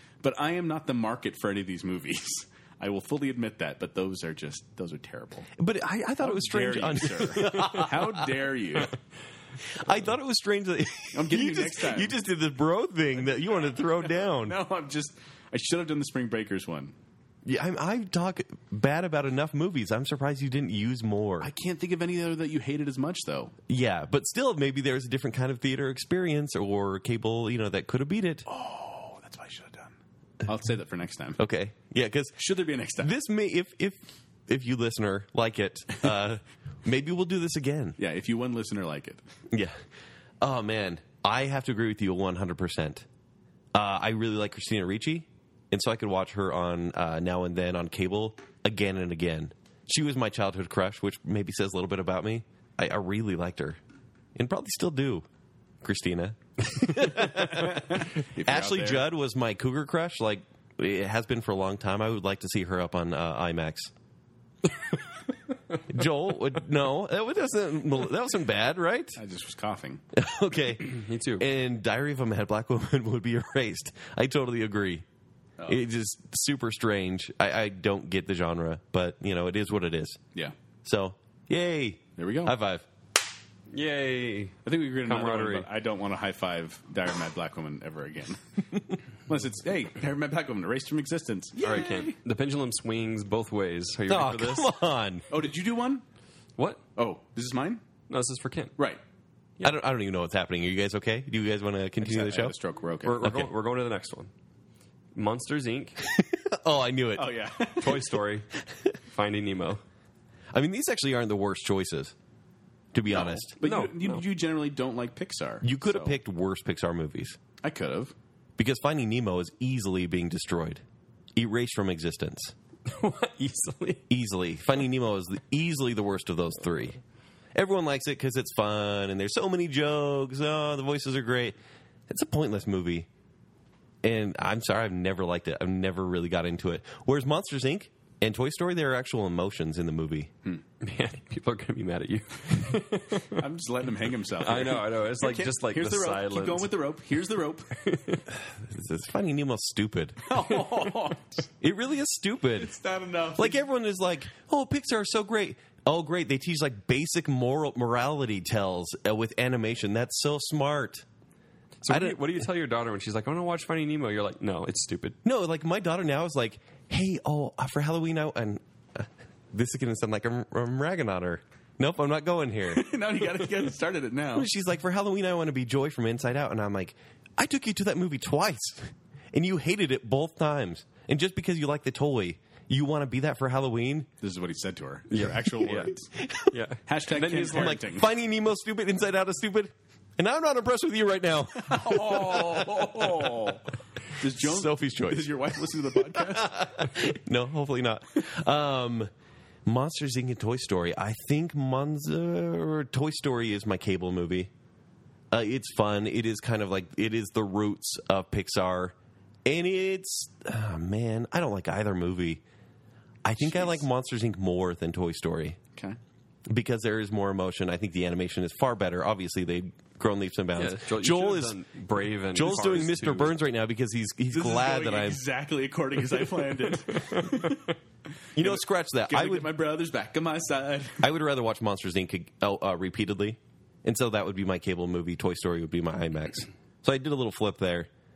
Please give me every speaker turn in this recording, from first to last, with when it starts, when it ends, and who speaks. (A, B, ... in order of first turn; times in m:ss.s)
0:00.2-0:05.5 A
0:05.6-0:08.3 B
0:06.2-0:08.9 A
0:09.7-0:14.6 B
0:11.1-0:12.2 A
0:13.6-0:16.9 A
0:17.4-0:21.5 B
0:21.4-0:23.5 A
0:23.7-0:28.4 B
0:28.4-0:31.4 A
0:31.4-0:32.4 B
0:32.4-0:33.1 A
0:33.0-0:38.0 B
0:38.0-0:39.2 A
0:39.5-0:39.8 B
0:40.4-0:43.0 B
0:43.7-0:53.8 B
0:54.3-0:55.2 B
0:55.8-1:03.9 B
0:57.3-0:59.1 A
1:05.9-1:09.2 B
1:09.2-1:10.0 A
1:10.1-1:15.0 B
1:10.8-1:11.4 C
1:15.7-1:20.2 B
1:20.8-1:22.8 B
1:22.2-1:22.5 A
1:23.7-1:25.7 C
1:24.6-1:28.4 A
1:29.2-1:32.1 A
1:31.6-1:34.7 C
1:34.1-1:35.2 B
1:35.3-1:36.0 A
1:36.6-1:36.8 C
1:37.0-1:37.8 A
1:38.1-1:38.7 C
1:39.6-1:42.5 B
1:42.0-1:43.3 A
1:43.0-1:44.3 C
1:43.2-1:43.5 B
1:45.1-1:46.0 C
1:46.0-1:47.3 B
1:47.2-1:48.0 A
1:47.8-1:48.5 C
1:49.1-1:49.8 C
1:50.5-1:52.1 B
1:52.9-1:53.5 B
1:53.1-1:56.2 A
1:53.6-1:54.2 C
1:55.6-1:57.4 B
1:57.6-1:58.1 A
1:58.6-2:00.8 B
2:01.4-2:02.5 B
2:02.9-2:04.0 C
2:04.1-2:07.0 B
2:07.5-2:11.6 B
2:12.1-2:13.1 B
2:14.0-2:20.3 B
2:20.8-2:23.4 C
2:23.3-2:27.8 A
2:24.4-2:26.7 C
2:27.8-2:28.2 C
2:28.5-2:30.3 B
2:30.2-2:31.5 A
2:31.6-2:32.7 B
2:32.6-2:33.6 A
2:33.4-2:41.0 B
2:41.8-2:45.2 C
2:41.9-2:42.2 B
2:45.2-2:52.8 B
2:52.7-2:54.5 A
2:54.3-3:04.1 B
3:04.2-3:06.1 A
3:05.1-3:05.9 C
3:06.2-3:06.6 B
3:06.5-3:07.8 C
3:06.8-3:08.1 A
3:07.5-3:13.5 B
3:11.5-3:16.7 A
3:14.3-3:15.5 B
3:16.1-3:19.1 B
3:19.6-3:24.5 B
3:25.3-3:32.4 B
3:33.2-3:35.6 B
3:33.4-3:33.8 A
3:36.5-3:41.6 B
3:40.6-3:43.4 C
3:42.3-3:45.2 B
3:44.3-3:47.7 A
3:48.4-3:49.5 B
3:48.4-3:51.0 A
3:51.0-3:57.9 B